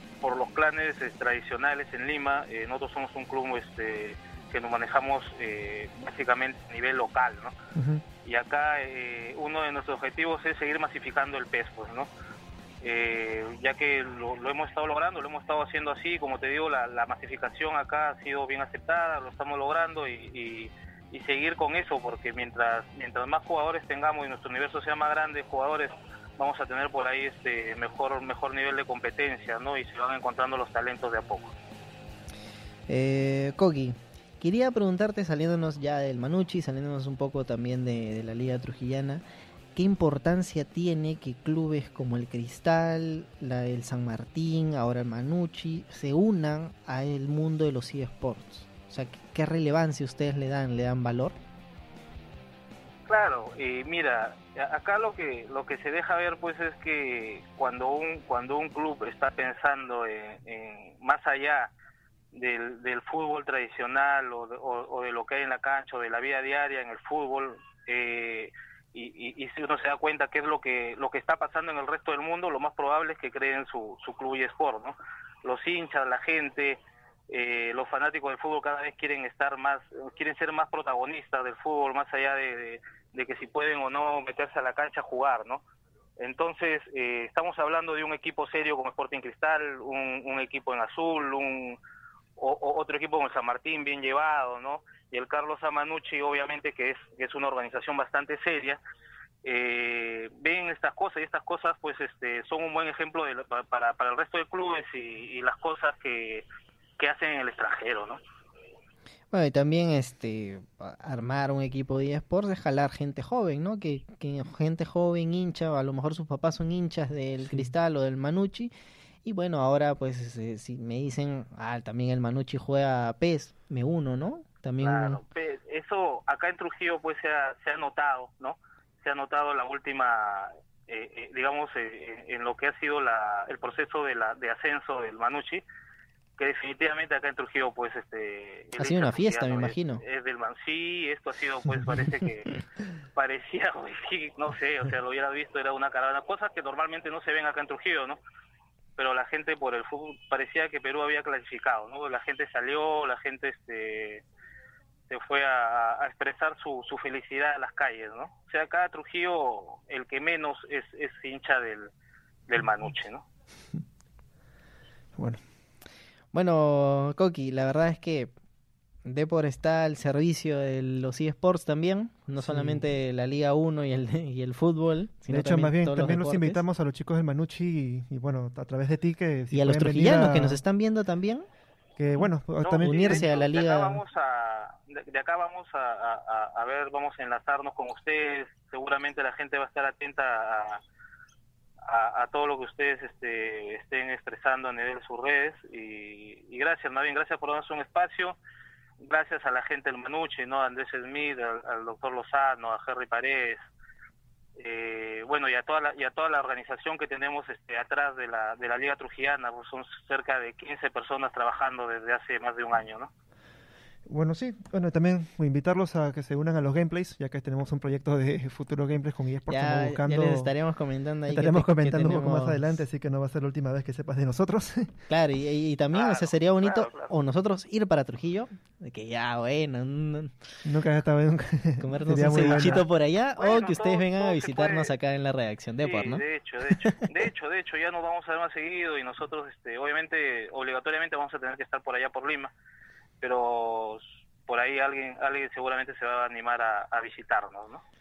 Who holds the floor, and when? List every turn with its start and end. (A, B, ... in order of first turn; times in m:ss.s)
0:00.2-0:07.6 A
0:07.8-0:08.0 B
0:08.2-0:12.1 A
0:12.8-0:31.5 A
0:32.9-0:39.2 C
0:39.8-0:51.4 C
0:53.1-1:01.7 A
1:02.3-1:16.8 A
1:17.3-1:25.6 A
1:26.2-1:31.8 A
1:32.4-1:38.8 A
1:39.4-1:46.5 A
1:47.0-1:48.2 A
1:49.3-1:58.7 C
1:59.2-2:05.2 C
2:04.8-2:15.6 A
2:16.4-2:22.6 A
2:18.8-2:20.0 C
2:23.2-2:28.2 A
2:29.0-2:34.2 A
2:35.1-2:41.9 A
2:42.5-2:43.2 A
2:46.3-2:48.3 C
2:49.0-2:56.6 C
2:52.4-2:52.9 B
2:55.3-3:00.6 B
2:59.5-3:01.5 C
3:02.0-3:03.1 B
3:02.6-3:10.8 A
3:02.8-3:04.0 C
3:11.9-3:18.4 A
3:19.0-3:23.6 A
3:24.6-3:33.1 A
3:34.1-3:40.5 B
3:39.5-3:42.8 C
3:41.3-3:45.0 B
3:45.1-3:50.3 C
3:45.9-3:47.1 A
3:50.6-3:52.8 B
3:51.8-3:56.2 C
3:53.4-3:54.9 A
3:55.8-4:02.5 A
4:03.2-4:07.8 A